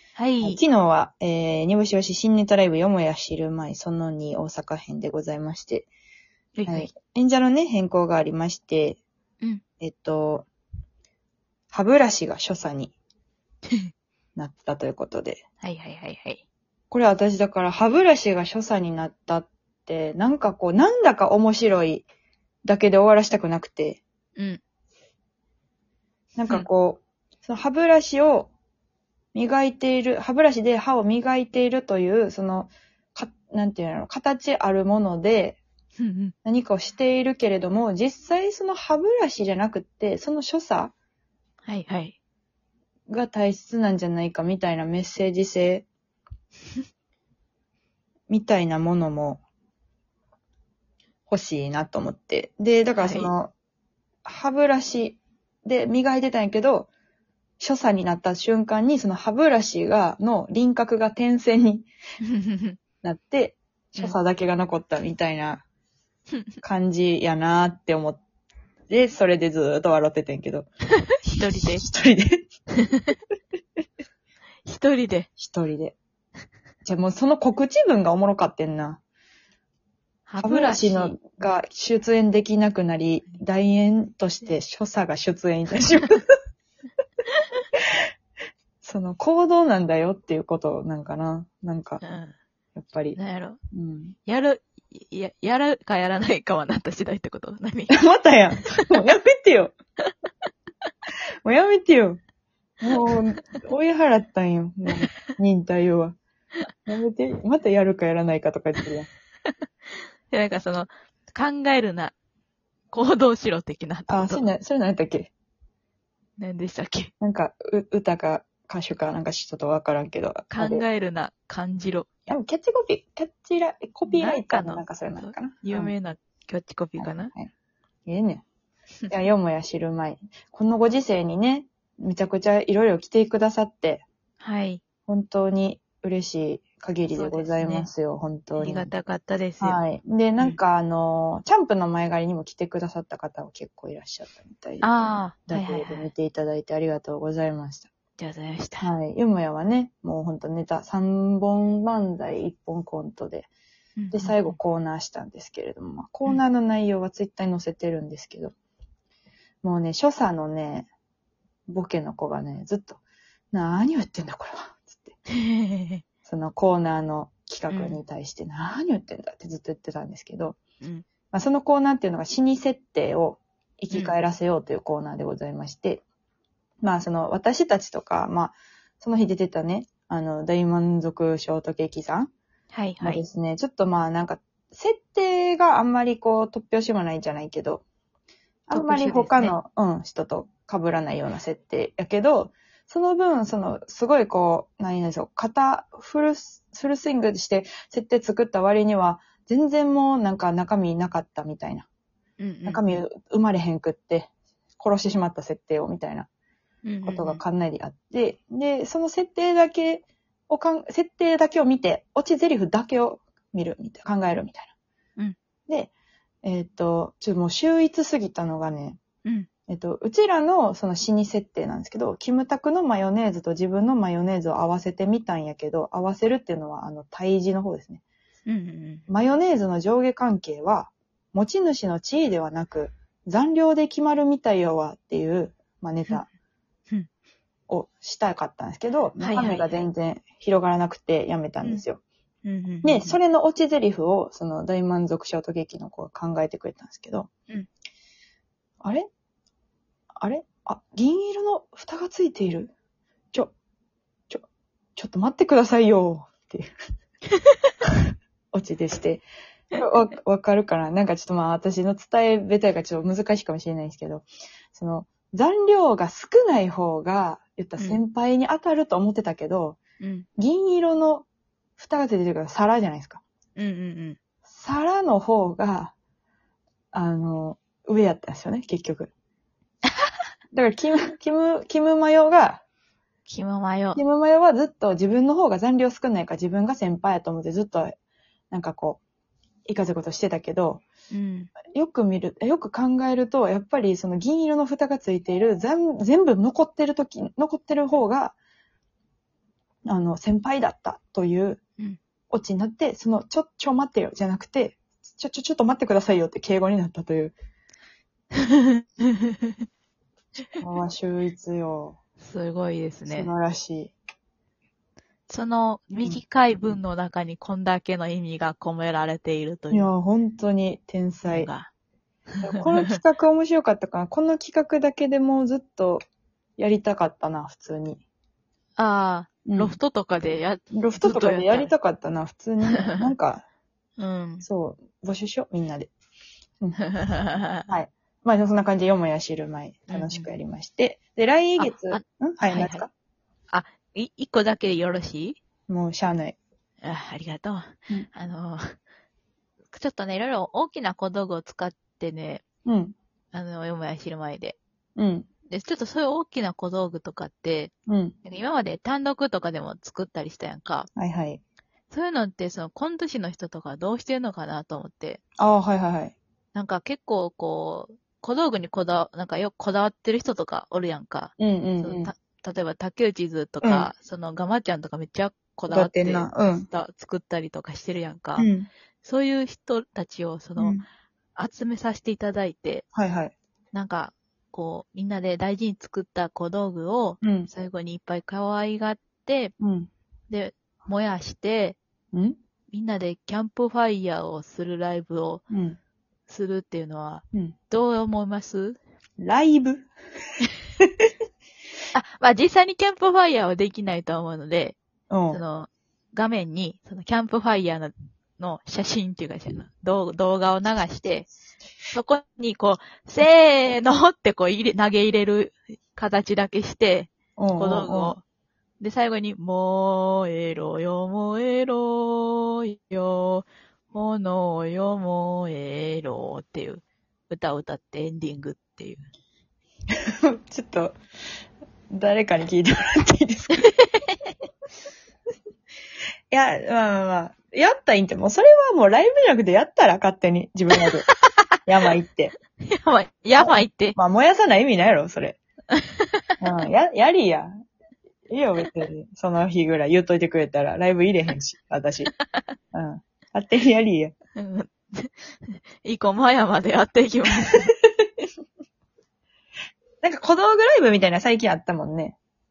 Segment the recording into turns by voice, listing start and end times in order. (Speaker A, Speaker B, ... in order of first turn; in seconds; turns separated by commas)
Speaker A: 0.2-0.6, Speaker B: 0.4-5.9, Speaker A: 6.5-6.9, Speaker B: 6.7-9.0, Speaker B: 9.8-10.5, Speaker B: 11.7-12.9, Speaker B: 14.3-15.4, Speaker A: 15.6-16.4, Speaker B: 16.9-22.1, Speaker B: 22.6-24.0, Speaker B: 26.4-28.5, Speaker B: 29.3-35.6, Speaker A: 36.0-36.3, Speaker B: 36.4-40.9, Speaker A: 41.6-42.1, Speaker B: 43.1-45.9, Speaker B: 48.3-49.4, Speaker B: 51.3-53.5, Speaker A: 53.0-53.3, Speaker B: 54.2-56.9, Speaker B: 57.6-61.9, Speaker A: 62.2-62.8, Speaker B: 63.0-65.6, Speaker B: 66.6-68.2, Speaker B: 68.9-70.7, Speaker A: 71.1-71.8, Speaker B: 71.6-72.4, Speaker A: 72.8-73.1, Speaker A: 74.7-75.3, Speaker B: 75.4-76.0, Speaker B: 76.8-79.0, Speaker A: 80.3-81.2, Speaker B: 80.4-86.3, Speaker B: 88.8-92.0, Speaker A: 92.0-92.3, Speaker B: 92.8-93.2, Speaker A: 93.2-93.6, Speaker B: 93.7-94.2, Speaker A: 94.3-98.0, Speaker B: 97.9-99.7, Speaker B: 101.4-102.2, Speaker B: 102.8-106.2, Speaker A: 102.8-103.1, Speaker B: 106.9-109.1, Speaker A: 110.3-112.1, Speaker A: 112.9-114.4, Speaker B: 114.1-115.3, Speaker A: 116.4-117.1, Speaker B: 117.2-120.8, Speaker A: 120.5-122.1, Speaker B: 122.3-125.9, Speaker A: 124.1-127.3, Speaker B: 127.0-127.5, Speaker B: 128.1-128.4, Speaker B: 129.1-134.0, Speaker A: 134.4-134.8, Speaker B: 135.1-138.9, Speaker A: 137.1-137.9, Speaker A: 138.6-139.8, Speaker B: 139.6-144.9, Speaker A: 144.8-146.1, Speaker B: 145.5-147.9, Speaker A: 148.2-148.9, Speaker B: 148.8-153.5, Speaker A: 154.0-154.5, Speaker B: 154.1-158.5, Speaker B: 159.6-160.9, Speaker B: 161.7-163.0, Speaker B: 163.5-165.2, Speaker A: 165.3-166.0, Speaker B: 166.2-170.6, Speaker A: 167.7-168.0, Speaker B: 171.3-176.0, Speaker B: 176.8-182.3, Speaker A: 182.7-183.2, Speaker B: 183.0-187.8, Speaker B: 188.7-201.9, Speaker A: 188.7-189.5, Speaker A: 202.4-202.8, Speaker B: 202.7-206.3, Speaker A: 206.8-207.4, Speaker B: 207.0-214.7, Speaker B: 216.4-219.0, Speaker B: 219.7-228.0, Speaker A: 228.5-229.1, Speaker B: 229.1-236.3, Speaker B: 237.7-242.0, Speaker A: 239.2-239.8, Speaker A: 242.4-243.2, Speaker B: 242.8-247.3, Speaker B: 248.8-249.1, Speaker B: 250.2-252.7, Speaker B: 254.9-256.7, Speaker B: 258.5-269.8, Speaker A: 270.0-270.3, Speaker B: 270.4-271.2, Speaker B: 271.8-273.2, Speaker A: 273.6-274.2, Speaker B: 274.5-275.9, Speaker B: 276.9-279.1, Speaker B: 280.5-282.6, Speaker A: 283.3-284.0, Speaker B: 283.9-287.9, Speaker B: 288.5-289.0, Speaker B: 289.7-290.8, Speaker A: 291.1-291.5, Speaker B: 291.6-298.4, Speaker B: 299.9-301.6, Speaker B: 302.3-307.3, Speaker A: 308.3-309.6, Speaker B: 310.6-312.0, Speaker A: 312.2-313.3, Speaker B: 313.1-313.9, Speaker A: 315.3-319.9, Speaker B: 319.7-321.5, Speaker A: 321.2-321.7, Speaker A: 322.3-322.9, Speaker B: 322.4-326.0, Speaker B: 326.6-328.0, Speaker A: 328.8-331.7, Speaker B: 329.4-333.4, Speaker A: 332.7-333.1, Speaker A: 334.0-334.4, Speaker B: 334.4-335.9, Speaker A: 336.9-337.7, Speaker B: 337.7-342.9, Speaker A: 339.9-340.2, Speaker A: 341.6-342.9, Speaker A: 343.5-345.4, Speaker B: 345.7-346.4, Speaker A: 346.8-348.7, Speaker A: 349.7-352.4, Speaker B: 352.6-352.9, Speaker A: 353.3-354.6, Speaker B: 354.9-355.3, Speaker A: 355.5-357.7, Speaker B: 357.9-358.1, Speaker A: 358.2-360.9, Speaker B: 361.0-361.4, Speaker A: 361.9-365.2, Speaker B: 365.4-366.1, Speaker A: 366.5-378.5, Speaker B: 371.4-372.1, Speaker B: 373.6-373.9, Speaker B: 375.7-376.7, Speaker B: 378.4-378.7, Speaker A: 379.0-380.8, Speaker B: 380.6-380.8, Speaker A: 381.4-382.8, Speaker B: 382.9-383.3, Speaker A: 383.7-389.5, Speaker B: 387.2-387.5, Speaker B: 389.6-389.9, Speaker A: 390.3-391.8, Speaker A: 392.7-395.4, Speaker B: 395.5-395.8, Speaker A: 396.3-398.8, Speaker B: 399.2-399.9, Speaker A: 401.9-404.8, Speaker B: 405.1-405.4, Speaker A: 405.3-411.3, Speaker A: 411.9-418.2, Speaker B: 417.4-418.1, Speaker A: 418.8-429.1, Speaker B: 430.2-430.9, Speaker B: 431.9-433.7, Speaker A: 433.7-434.1, Speaker B: 436.3-441.1, Speaker A: 441.0-441.5, Speaker B: 441.6-442.3, Speaker A: 442.6-444.0, Speaker B: 443.4-445.4, Speaker A: 445.7-446.3, Speaker B: 446.4-447.5, Speaker B: 448.3-452.1, Speaker B: 452.7-454.1, Speaker A: 454.4-457.7, Speaker B: 460.0-462.1